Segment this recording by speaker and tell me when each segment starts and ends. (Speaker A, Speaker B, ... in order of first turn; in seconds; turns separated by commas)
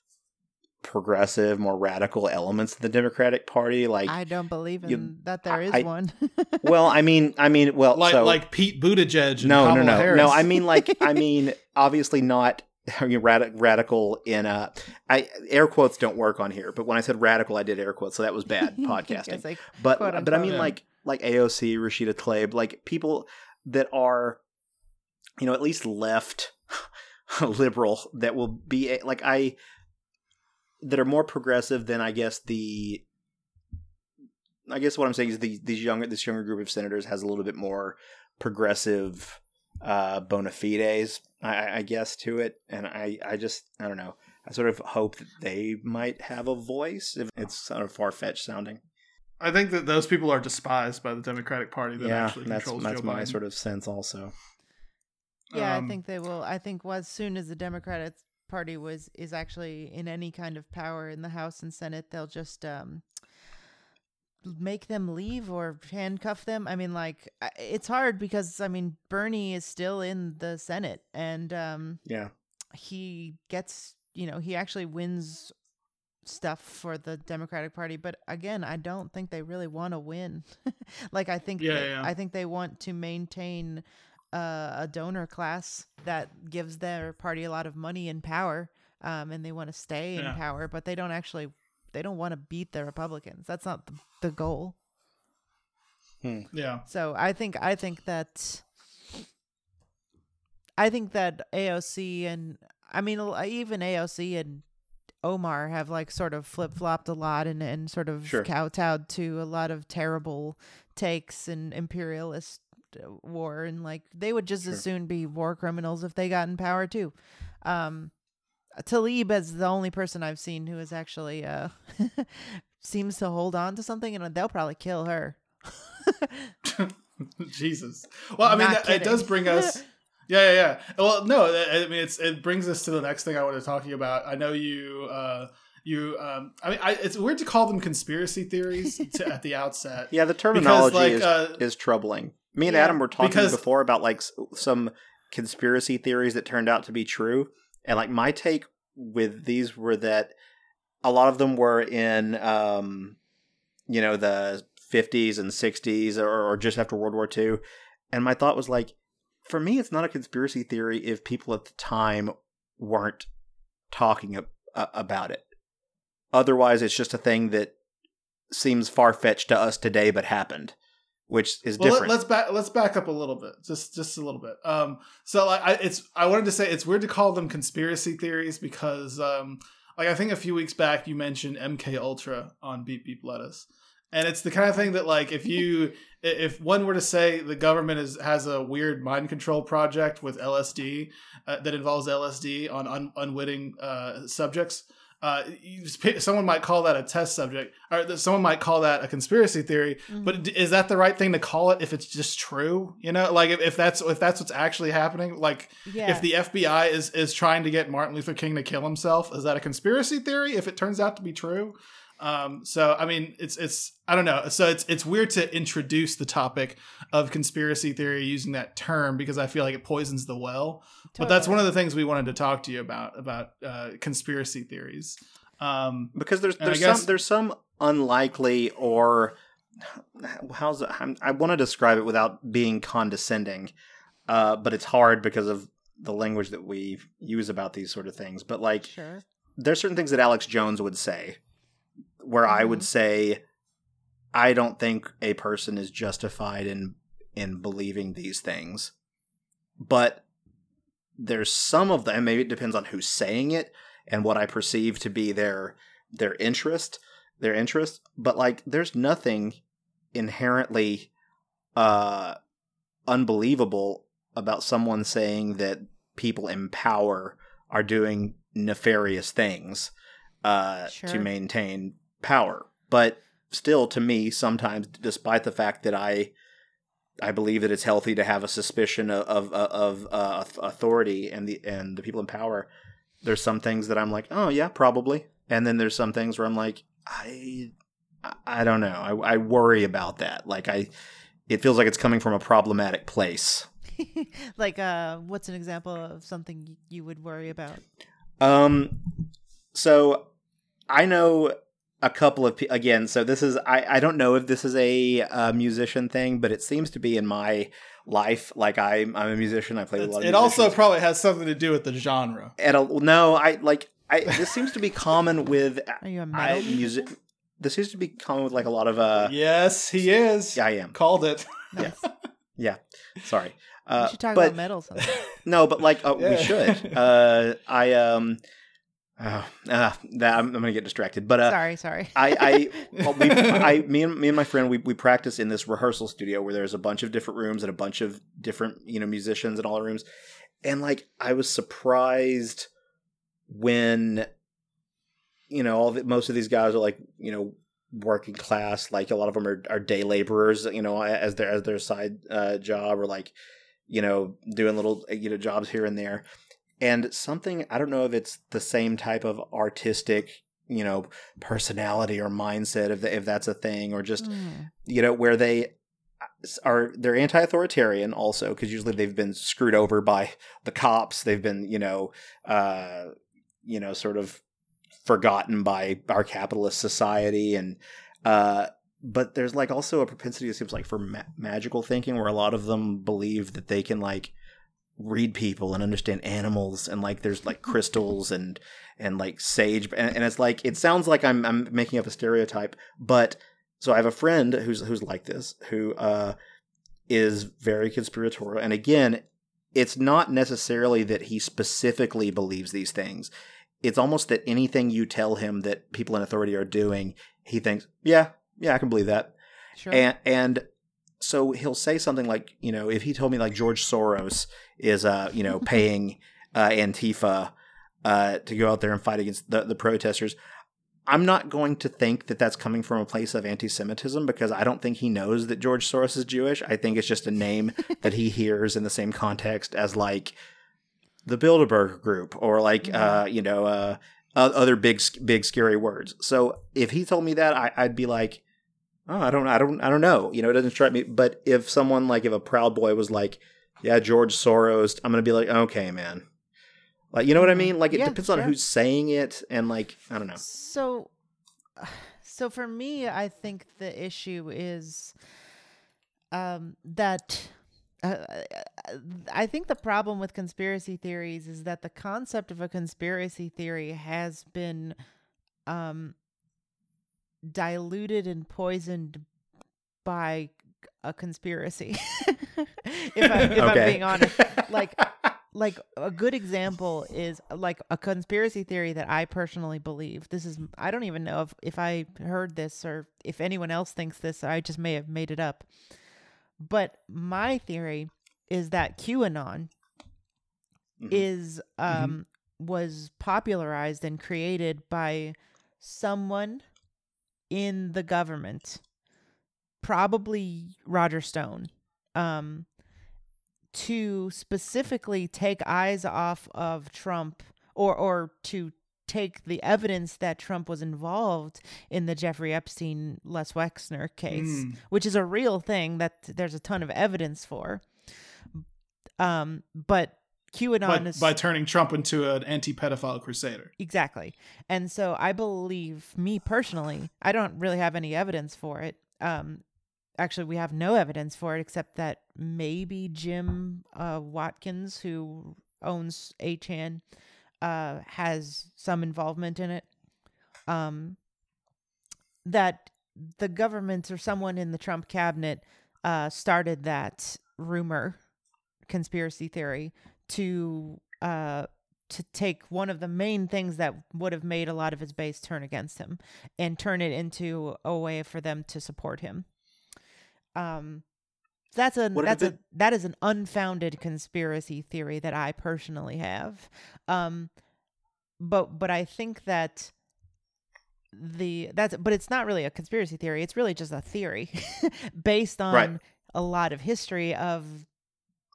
Speaker A: 0.8-4.1, Speaker B: 4.1-6.7, Speaker A: 4.8-5.9, Speaker A: 6.6-8.4, Speaker C: 7.9-10.4, Speaker A: 9.4-24.4, Speaker B: 10.7-11.2, Speaker B: 18.8-20.7, Speaker C: 20.4-20.7, Speaker A: 25.4-29.6, Speaker A: 30.8-33.0, Speaker A: 34.7-48.8, Speaker C: 49.4-53.4, Speaker A: 52.0-54.3, Speaker C: 55.5-56.0, Speaker B: 55.5-63.0, Speaker B: 64.4-72.0, Speaker A: 72.0-72.3, Speaker B: 72.7-75.5, Speaker B: 76.2-94.8, Speaker C: 81.6-82.1, Speaker A: 96.2-96.5, Speaker C: 96.5-96.8, Speaker B: 96.8-98.7, Speaker B: 100.8-104.6, Speaker B: 105.2-117.1, Speaker B: 117.6-118.1, Speaker B: 118.8-126.5, Speaker C: 126.6-141.6, Speaker B: 128.4-129.8, Speaker A: 140.1-150.3, Speaker B: 142.6-143.0, Speaker C: 143.2-143.6, Speaker A: 151.0-153.2, Speaker A: 153.9-158.9, Speaker A: 159.4-163.3, Speaker A: 163.9-165.4, Speaker A: 166.3-167.7, Speaker A: 168.5-170.7, Speaker A: 171.3-172.1, Speaker C: 171.8-227.1, Speaker B: 200.1-200.4, Speaker B: 205.8-206.2, Speaker B: 221.2-221.6, Speaker A: 226.1-233.7, Speaker A: 234.3-238.9, Speaker B: 238.8-239.2, Speaker A: 239.6-241.4, Speaker A: 242.2-243.4, Speaker B: 242.5-242.8, Speaker A: 244.3-248.9, Speaker A: 249.8-250.2, Speaker A: 251.2-259.6, Speaker A: 260.1-261.1, Speaker A: 261.8-262.4, Speaker A: 263.1-269.9, Speaker A: 270.4-276.3, Speaker B: 270.9-271.3, Speaker A: 277.2-282.7, Speaker A: 283.2-290.9, Speaker A: 291.5-293.7, Speaker B: 294.0-297.8, Speaker A: 298.4-299.1, Speaker A: 299.7-300.3, Speaker A: 300.9-310.8, Speaker C: 310.0-312.5, Speaker A: 312.6-319.3, Speaker B: 316.0-316.8, Speaker C: 319.2-322.1, Speaker A: 320.5-320.9, Speaker B: 321.7-322.0, Speaker A: 322.6-324.6, Speaker B: 324.0-325.2, Speaker C: 325.0-325.3, Speaker A: 325.4-328.4, Speaker C: 326.1-327.0, Speaker A: 329.2-331.6, Speaker B: 331.4-332.9, Speaker A: 332.1-340.0, Speaker C: 333.0-333.7, Speaker A: 340.6-342.7, Speaker A: 343.5-344.3, Speaker A: 345.5-353.3, Speaker A: 353.9-356.2, Speaker A: 356.8-364.3, Speaker B: 364.2-364.7, Speaker A: 364.8-365.7, Speaker A: 366.4-373.1, Speaker A: 373.6-374.4, Speaker A: 375.0-384.3, Speaker A: 385.0-396.4, Speaker A: 397.1-403.3, Speaker A: 403.8-409.3, Speaker B: 409.8-410.0, Speaker A: 409.9-410.6, Speaker A: 411.2-417.5, Speaker A: 418.0-420.4, Speaker A: 421.1-430.3, Speaker A: 431.2-438.4, Speaker B: 432.8-433.2, Speaker A: 439.1-446.2, Speaker A: 447.1-450.4, Speaker B: 447.4-448.5, Speaker B: 450.4-451.1, Speaker B: 451.8-455.1, Speaker B: 456.3-465.0, Speaker B: 465.7-466.1, Speaker B: 467.4-469.2, Speaker B: 470.0-485.7, Speaker A: 473.5-474.6, Speaker B: 486.6-489.7, Speaker A: 491.0-491.2, Speaker B: 491.1-496.6, Speaker C: 491.9-492.2, Speaker B: 497.5-498.8, Speaker B: 499.8-502.7, Speaker B: 503.7-517.8, Speaker C: 514.3-514.8, Speaker B: 519.2-521.3, Speaker C: 520.9-523.7, Speaker B: 523.8-529.6, Speaker B: 530.2-537.0, Speaker B: 537.6-539.9, Speaker B: 540.7-541.2, Speaker B: 542.4-548.2, Speaker B: 548.9-559.5, Speaker B: 560.5-561.0, Speaker B: 561.7-567.5, Speaker A: 562.1-562.5, Speaker B: 568.4-569.9, Speaker B: 571.1-577.9, Speaker A: 575.7-576.0